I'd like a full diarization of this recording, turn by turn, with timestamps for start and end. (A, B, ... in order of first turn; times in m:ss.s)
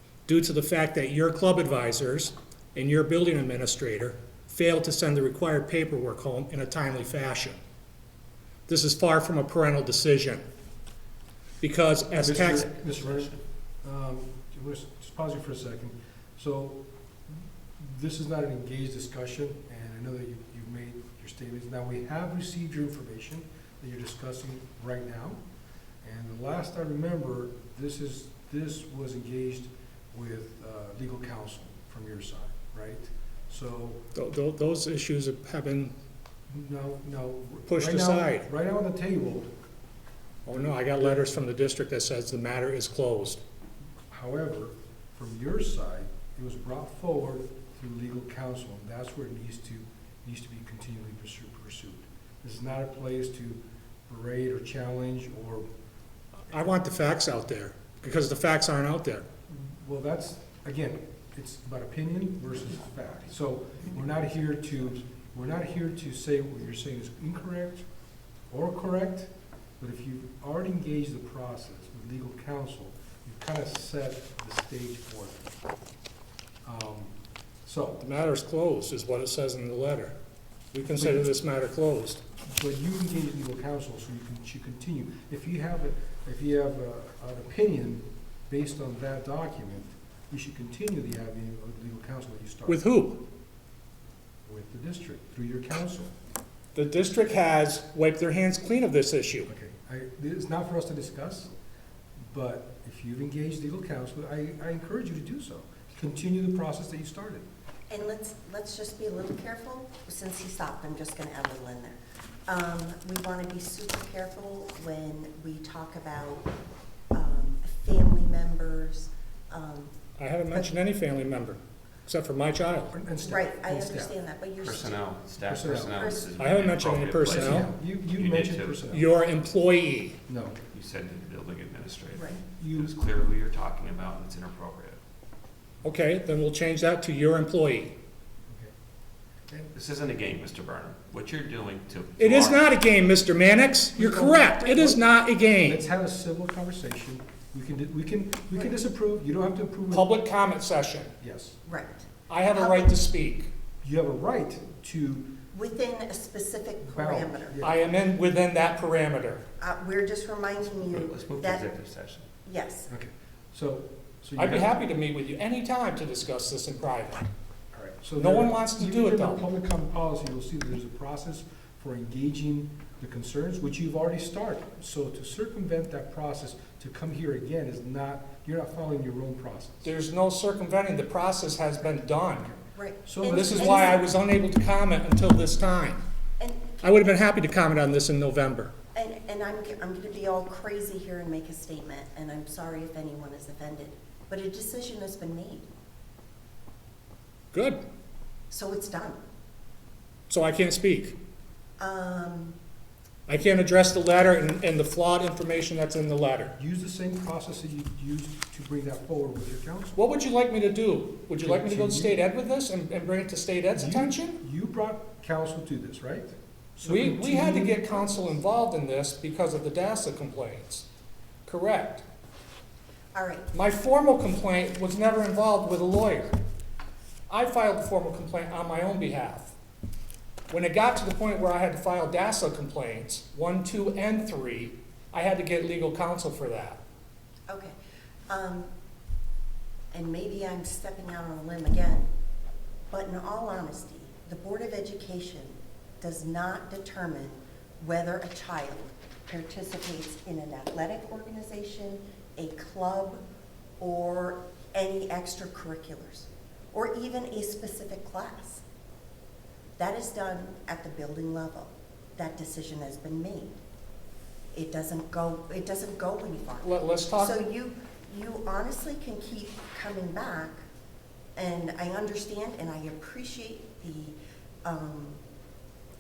0:00.3-0:07.6 A
0:08.7-0:10.4 A
0:11.6-0:12.7 A
0:12.2-0:25.4 B
0:12.5-0:13.4 C
0:26.0-0:34.0 B
0:34.2-0:36.0 A
0:36.5-0:39.5 B
0:37.7-0:38.5 A
0:40.5-0:43.4 A
0:44.1-0:55.7 B
0:56.5-0:59.3 A
0:59.5-1:07.8 B
1:08.5-1:15.5 B
1:16.6-1:18.0 B
1:18.0-1:20.2 A
1:20.7-1:22.2 A
1:20.9-1:21.3 B
1:22.5-1:32.8 B
1:32.7-1:33.2 A
1:34.5-1:36.1 B
1:36.8-1:39.5 A
1:39.5-1:41.5 B
1:42.2-1:47.4 B
1:47.9-1:56.5 D
1:57.1-2:00.0 D
2:00.2-2:02.9 A
2:00.5-2:00.7 D
2:02.9-2:04.1 B
2:03.2-2:05.1 D
2:04.6-2:08.8 C
2:05.4-2:06.0 B
2:06.0-2:06.3 D
2:06.4-2:07.7 A
2:07.3-2:09.1 B
2:08.9-2:10.2 A
2:10.3-2:10.6 B
2:10.7-2:15.0 C
2:12.1-2:12.4 D
2:12.6-2:12.9 B
2:15.8-2:18.0 A
2:18.5-2:18.7 B
2:19.7-2:22.7 C
2:22.2-2:25.8 A
2:24.0-2:25.0 B
2:25.6-2:30.1 B
2:29.9-2:31.2 A
2:31.2-2:31.6 B
2:31.6-2:33.0 D
2:32.3-2:33.5 A
2:33.8-2:35.3 B
2:35.5-2:37.6 D
2:36.9-2:37.8 B
2:37.6-2:39.4 A
2:39.6-2:41.7 D
2:40.8-2:42.3 C
2:42.4-2:42.9 D
2:42.9-2:44.8 B
2:44.4-2:47.3 A
2:47.7-2:59.9 B
2:48.2-2:49.5 A
2:59.8-3:02.5 A
3:02.8-3:04.1 D
3:03.0-3:04.0 B
3:03.3-3:06.0 A
3:06.4-3:06.9 D
3:06.8-3:08.7 A
3:09.0-3:15.7 D
3:17.5-3:17.8 A
3:18.5-3:19.2 D
3:20.3-3:21.2 A
3:21.8-3:22.6 D
3:23.3-3:26.6 A
3:26.6-3:30.0 B
3:30.0-3:34.4 A
3:31.4-3:32.2 B
3:33.8-3:37.8 B
3:36.8-3:40.9 A
3:41.5-3:42.0 A
3:43.1-3:43.5 D
3:43.5-3:46.4 A
3:47.3-3:49.5 A
3:50.5-3:56.8 A
3:57.5-3:57.8 D
3:58.3-3:58.7 D
3:59.9-4:02.1 D
4:02.9-4:13.2 D
4:13.8-4:18.6 D
4:19.8-4:23.6 D
4:24.5-4:30.6 D
4:26.6-4:27.5 A
4:31.4-4:35.2 D